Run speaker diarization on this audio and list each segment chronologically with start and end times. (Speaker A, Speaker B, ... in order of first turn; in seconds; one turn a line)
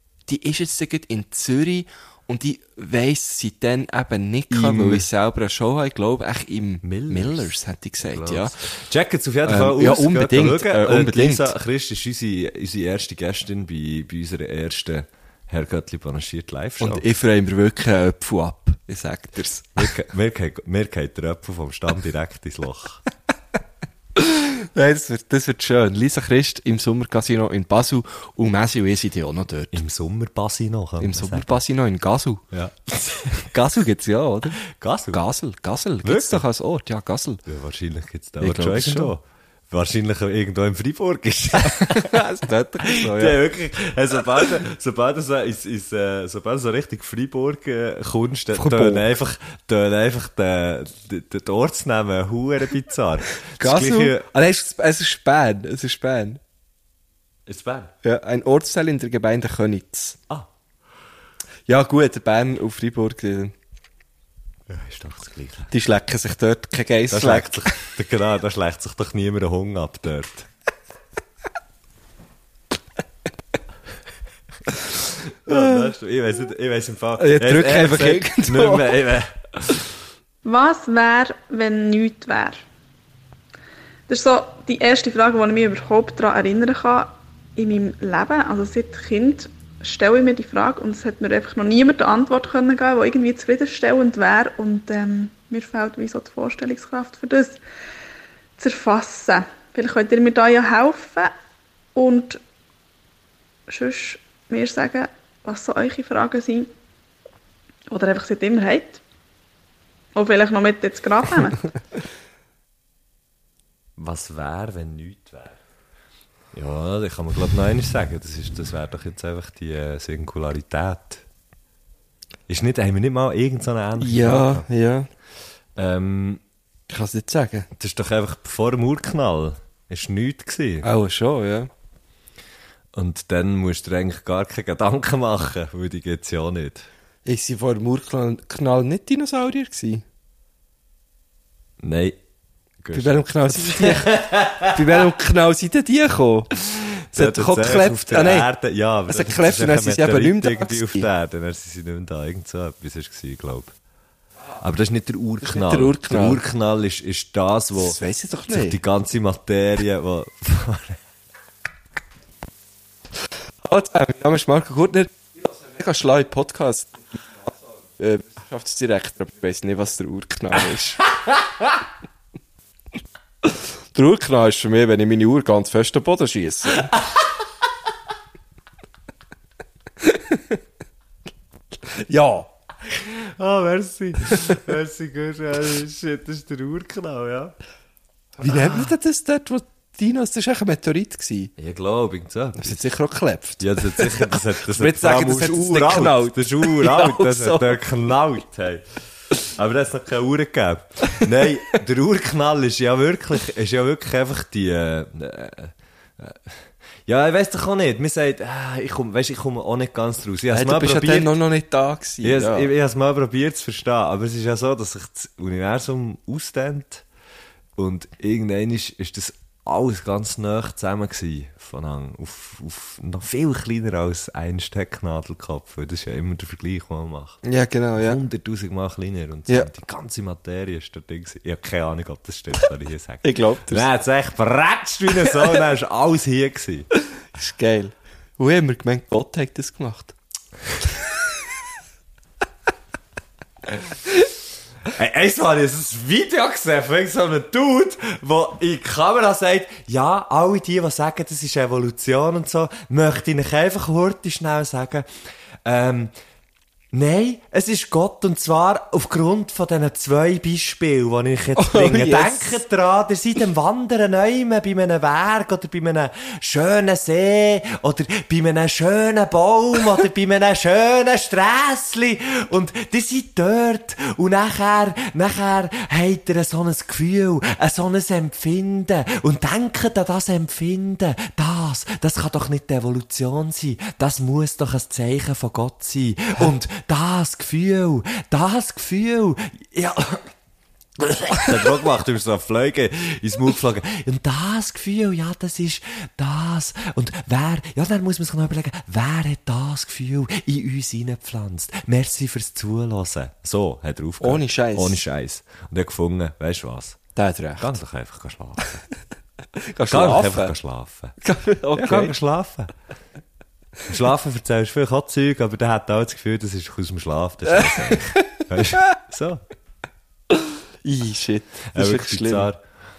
Speaker A: 0.3-8.6
Speaker B: 4.5-5.1
Speaker B: 6.8-7.5
Speaker B: 8.0-17.0
Speaker A: 9.4-11.5
Speaker A: 16.8-19.9
Speaker B: 19.8-23.0
Speaker A: 24.1-29.8
Speaker B: 29.7-31.6
Speaker A: 31.0-32.4
Speaker B: 32.5-33.5
Speaker A: 33.5-34.6
Speaker B: 34.7-35.2
Speaker A: 35.1-37.4
Speaker B: 36.0-36.5
Speaker B: 37.5-42.2
Speaker A: 38.4-39.1
Speaker A: 41.6-43.4
Speaker B: 42.8-54.2
Speaker A: 48.5-49.1
Speaker A: 53.6-56.4
Speaker B: 57.5-57.9
Speaker A: 58.0-60.2
Speaker A: 61.7-63.5
Speaker B: 64.7-65.7
Speaker A: 65.7-67.6
Speaker B: 67.1-70.5
Speaker B: 75.3-79.8
Speaker A: 75.5-75.9
Speaker A: 77.2-79.0
Speaker C: 80.5-82.6
Speaker C: 84.1-97.6
Speaker C: 98.6-101.3
Speaker C: 102.0-102.4
Speaker C: 103.7-106.7
Speaker C: 107.9-109.0
Speaker C: 110.2-111.7
Speaker B: 114.0-115.6
Speaker B: 116.5-121.2
Speaker B: 122.5-124.7
Speaker A: 124.0-125.1
Speaker B: 125.8-126.4
Speaker A: 126.9-127.7
Speaker B: 127.8-130.9
Speaker A: 130.8-131.7
Speaker B: 132.9-136.9
Speaker A: 137.2-140.0
Speaker B: 141.8-142.2
Speaker B: 142.8-145.1
Speaker A: 142.9-146.5
Speaker B: 147.1-153.8
Speaker A: 147.1-148.5
Speaker A: 149.1-151.1
Speaker B: 154.6-161.0
Speaker A: 155.4-156.4
Speaker A: 157.7-158.8
Speaker A: 163.6-171.0
Speaker A: 173.4-176.9
Speaker A: 180.0-180.6
Speaker A: 181.9-182.5
Speaker B: 182.9-187.6
Speaker A: 188.4-191.5
Speaker B: 188.4-188.9
Speaker B: 191.6-192.9
Speaker A: 192.6-197.8
Speaker B: 193.6-211.3
Speaker A: 210.5-212.7
Speaker B: 212.2-217.0
Speaker B: 217.8-227.4
Speaker A: 227.4-228.2
Speaker B: 228.0-236.9
Speaker A: 233.2-233.9
Speaker A: 237.3-240.2
Speaker B: 244.9-255.1
Speaker B: 255.7-256.1
Speaker B: 256.9-290.3
Speaker A: 261.6-262.6
Speaker B: 291.0-307.0
Speaker A: 304.2-305.0
Speaker A: 307.1-307.7
Speaker B: 307.6-308.8
Speaker A: 309.6-310.5
Speaker B: 309.9-311.1
Speaker A: 311.2-312.1
Speaker B: 311.8-312.7
Speaker B: 313.9-319.4
Speaker A: 317.5-318.2
Speaker A: 320.3-322.5
Speaker B: 321.7-322.6